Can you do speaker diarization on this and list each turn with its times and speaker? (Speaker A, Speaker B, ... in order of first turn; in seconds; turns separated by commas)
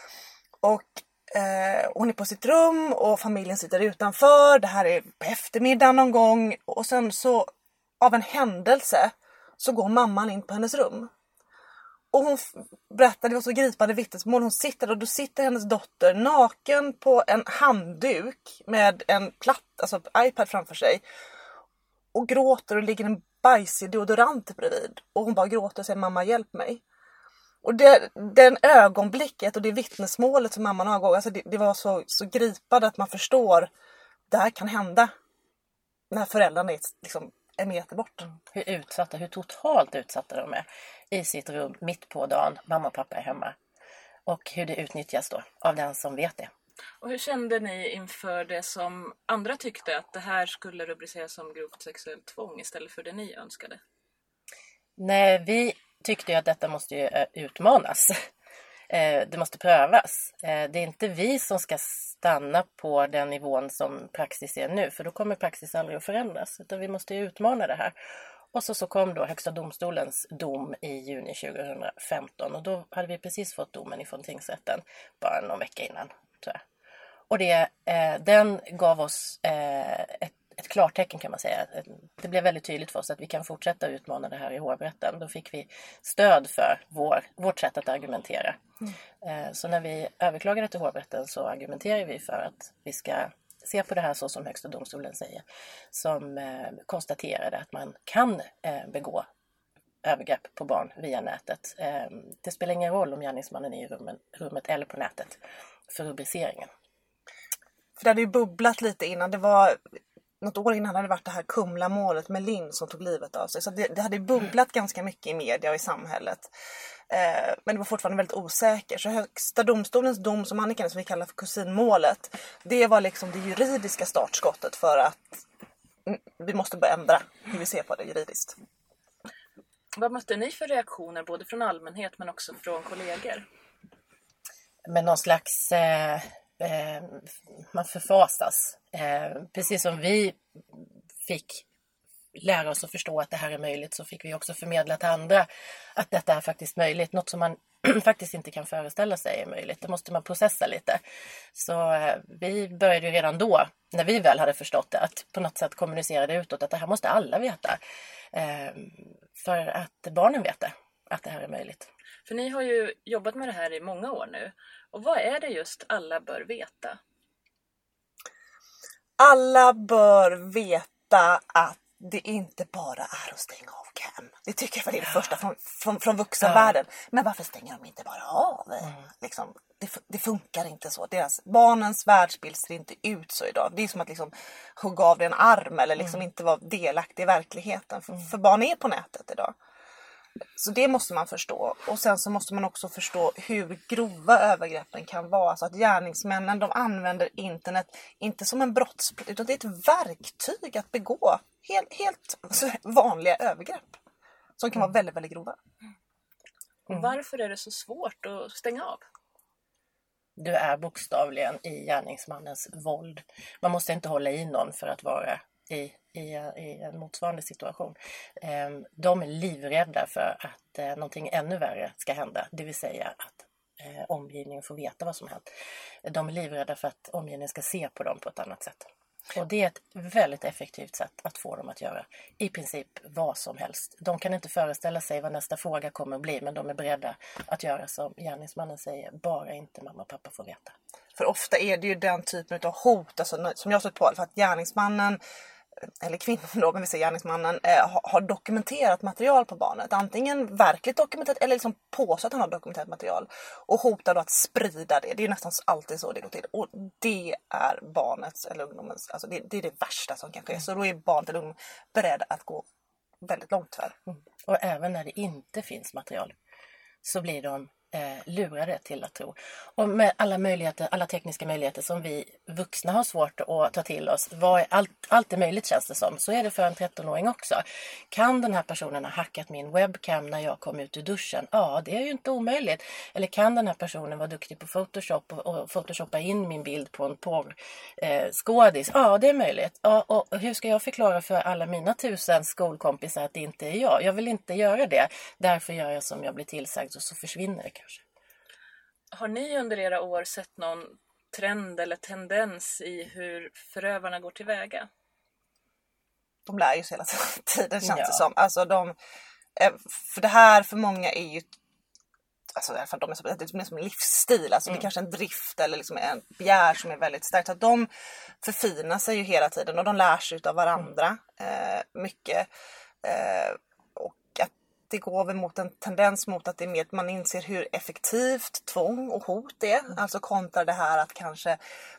Speaker A: 0.6-11.1, Speaker A: 12.1-21.0, Speaker A: 22.1-26.8, Speaker A: 27.6-33.7, Speaker A: 34.3-35.1, Speaker A: 36.1-38.3, Speaker B: 38.3-43.5, Speaker B: 44.3-46.5, Speaker C: 47.0-53.8, Speaker B: 55.0-58.1, Speaker B: 58.9-67.9, Speaker B: 68.5-76.6, Speaker B: 77.3-88.6, Speaker B: 89.2-99.2, Speaker B: 100.0-105.4, Speaker B: 105.9-106.7, Speaker A: 108.0-116.5, Speaker A: 117.1-125.4, Speaker A: 126.0-128.6, Speaker C: 129.9-133.4, Speaker B: 134.9-141.7, Speaker B: 142.4-151.0, Speaker B: 151.5-157.8, Speaker B: 158.3-161.9, Speaker C: 162.2-167.0, Speaker A: 169.2-189.5, Speaker B: 176.4-176.7, Speaker A: 190.6-204.0, Speaker A: 204.6-205.6, Speaker C: 206.9-209.0, Speaker B: 210.4-225.4, Speaker B: 226.0-240.7, Speaker A: 241.2-245.2, Speaker A: 246.0-262.6, Speaker A: 263.2-263.9, Speaker B: 264.4-266.4, Speaker B: 267.0-298.0, Speaker C: 299.1-304.9, Speaker A: 306.4-308.9, Speaker B: 307.8-308.2, Speaker A: 309.6-311.5, Speaker A: 312.5-317.9, Speaker A: 318.4-322.5, Speaker A: 323.0-331.6